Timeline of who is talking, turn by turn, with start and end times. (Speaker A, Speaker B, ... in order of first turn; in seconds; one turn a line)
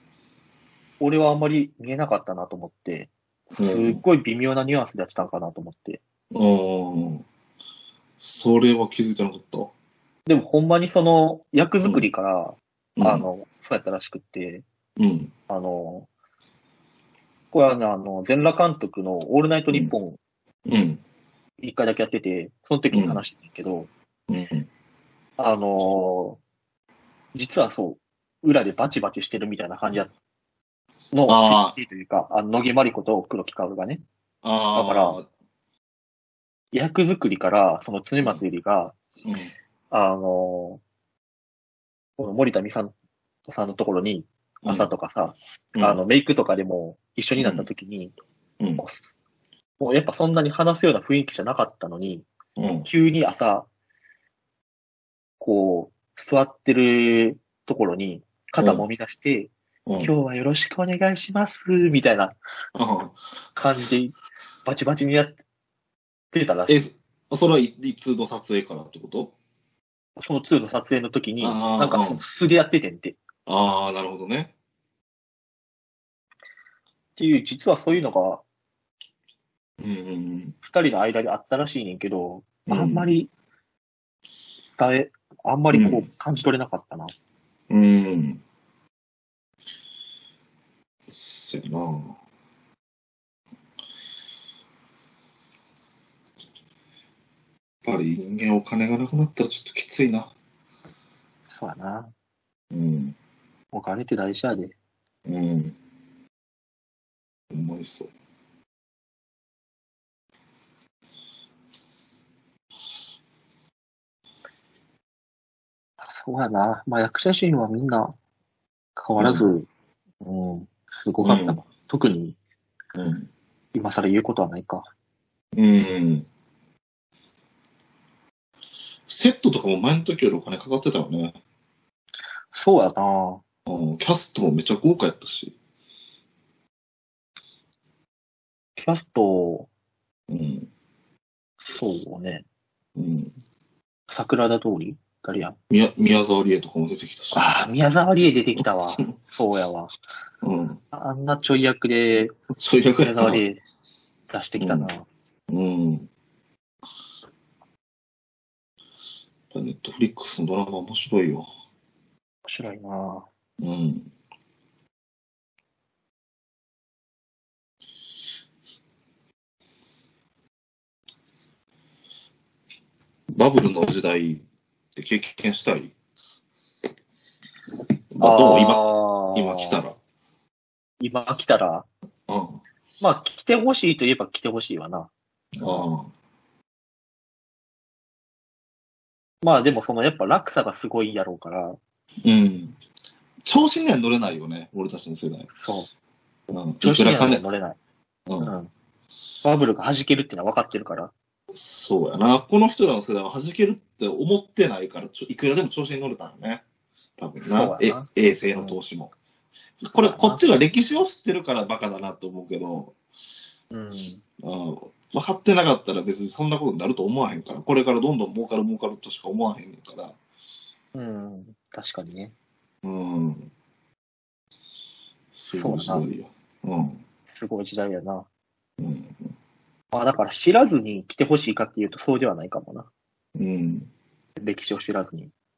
Speaker A: 1.0-6.0
Speaker B: 3.6-4.0
Speaker B: 6.3-7.3
Speaker B: 8.2-9.7
Speaker A: 10.3-14.7
Speaker B: 13.0-13.3
Speaker B: 15.0-15.3
Speaker A: 15.5-16.1
Speaker A: 17.5-20.2
Speaker B: 20.7-21.0
Speaker A: 21.6-23.9
Speaker B: 22.9-23.2
Speaker B: 24.3-24.7
Speaker A: 25.4-26.4
Speaker A: 27.3-30.1
Speaker A: 31.1-34.0
Speaker B: 31.3-31.8
Speaker B: 34.4-35.3
Speaker A: 34.7-35.2
Speaker A: 36.7-39.0
Speaker B: 39.2-39.5
Speaker A: 39.9-40.8
Speaker A: 42.2-42.9
Speaker A: 43.5-48.1
Speaker B: 44.6-44.9
Speaker B: 47.4-47.7
Speaker A: 48.8-49.2
Speaker A: 49.8-52.3
Speaker B: 52.6-52.9
Speaker A: 52.9-53.7
Speaker A: 55.4-62.4
Speaker B: 58.6-58.9
Speaker B: 59.9-60.1
Speaker B: 62.8-63.2
Speaker A: 63.5-65.4
Speaker A: 66.3-66.9
Speaker B: 66.7-69.3
Speaker A: 70.2-73.2
Speaker B: 71.4-72.2
Speaker B: 73.5-74.5
Speaker A: 77.2-78.4
Speaker B: 79.8-80.6
Speaker A: 80.6-83.3
Speaker B: 82.7-83.1
Speaker A: 84.7-87.1
Speaker B: 85.7-86.1
Speaker B: 87.7-88.4
Speaker B: 91.1-92.2
Speaker B: 97.8-100.3
Speaker A: 101.5-102.1
Speaker B: 102.7-103.2
Speaker A: 103.7-104.8
Speaker B: 105.3-105.8
Speaker B: 107.5-108.1
Speaker A: 116.0-118.2
Speaker A: 119.0-119.7
Speaker B: 119.2-119.5
Speaker A: 120.2-122.4
Speaker B: 121.2-121.6
Speaker B: 123.0-123.3
Speaker A: 123.7-124.9
Speaker B: 125.5-126.3
Speaker B: 129.1-131.4
Speaker A: 132.5-133.4
Speaker B: 133.7-135.6
Speaker A: 138.8-139.7
Speaker B: 140.3-140.7
Speaker A: 141.7-142.4
Speaker B: 143.0-143.3
Speaker A: 144.1-145.6
Speaker B: 145.7-147.5
Speaker A: 147.3-149.9
Speaker B: 150.4-150.8
Speaker A: 150.9-152.4
Speaker B: 152.6-153.4
Speaker A: 153.0-153.6
Speaker A: 154.3-155.1
Speaker B: 154.6-154.9
Speaker B: 155.5-156.1
Speaker B: 159.5-161.5
Speaker A: 162.4-163.3
Speaker B: 163.6-164.1
Speaker B: 173.3-174.4
Speaker B: 174.9-175.9
Speaker B: 178.1-180.0
Speaker A: 178.2-179.8
Speaker A: 181.0-181.9
Speaker B: 182.3-182.6
Speaker A: 183.0-185.9
Speaker B: 185.6-186.1
Speaker A: 189.4-191.8
Speaker B: 192.2-192.8
Speaker B: 193.4-195.5
Speaker A: 195.6-195.9
Speaker B: 196.5-197.4
Speaker A: 196.8-197.8
Speaker B: 198.3-198.5
Speaker A: 198.4-198.7
Speaker A: 199.4-201.1
Speaker B: 201.5-206.6
Speaker B: 207.2-209.1
Speaker A: 207.4-208.8
Speaker B: 209.8-212.9
Speaker A: 209.9-210.4
Speaker A: 213.7-214.2
Speaker B: 214.4-220.2
Speaker A: 220.9-222.3
Speaker B: 222.8-223.5
Speaker B: 225.3-227.0
Speaker A: 225.5-226.1
Speaker A: 227.3-228.3
Speaker B: 228.8-229.3
Speaker A: 229.9-232.9
Speaker B: 233.3-233.9
Speaker A: 234.4-235.3